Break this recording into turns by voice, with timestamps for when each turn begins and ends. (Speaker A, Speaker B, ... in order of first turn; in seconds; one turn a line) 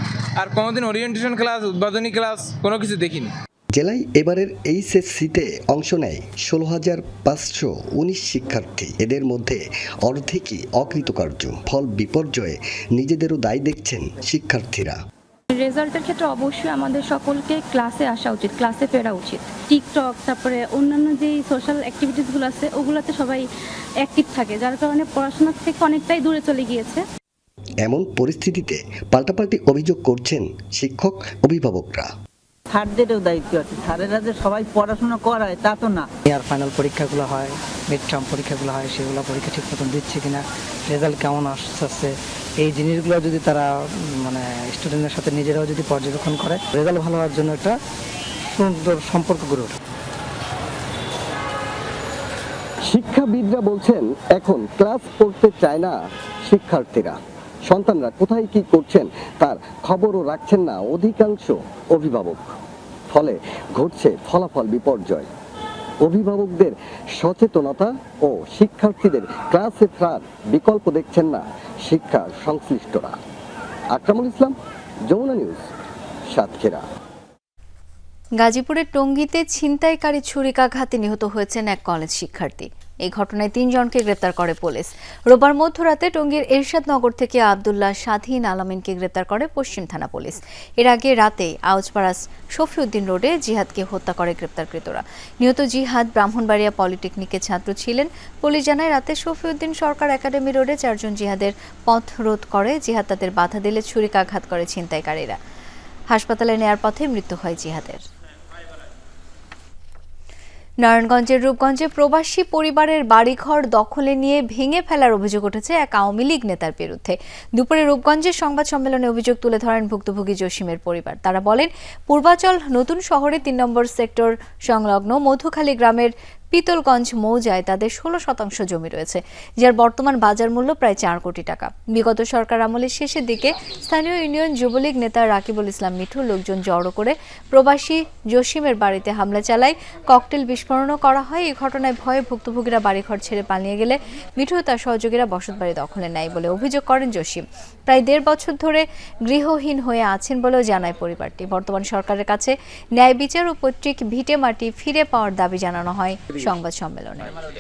Speaker A: 0.4-3.3
Speaker B: 3.7-15.0
Speaker C: 15.5-23.4
Speaker C: 24.0-27.0
Speaker B: 27.9-32.1
Speaker D: 32.7-36.1
Speaker E: 36.3-47.8
Speaker E: 48.6-49.8
Speaker B: 52.9-62.5
Speaker B: 63.1-65.3
Speaker B: 66.0-73.2
Speaker B: 73.9-74.6
Speaker B: 75.1-75.7
Speaker B: 76.3-76.8
Speaker F: 78.4-105.4
Speaker F: 106.1-108.0
Speaker F: 110.8-157.3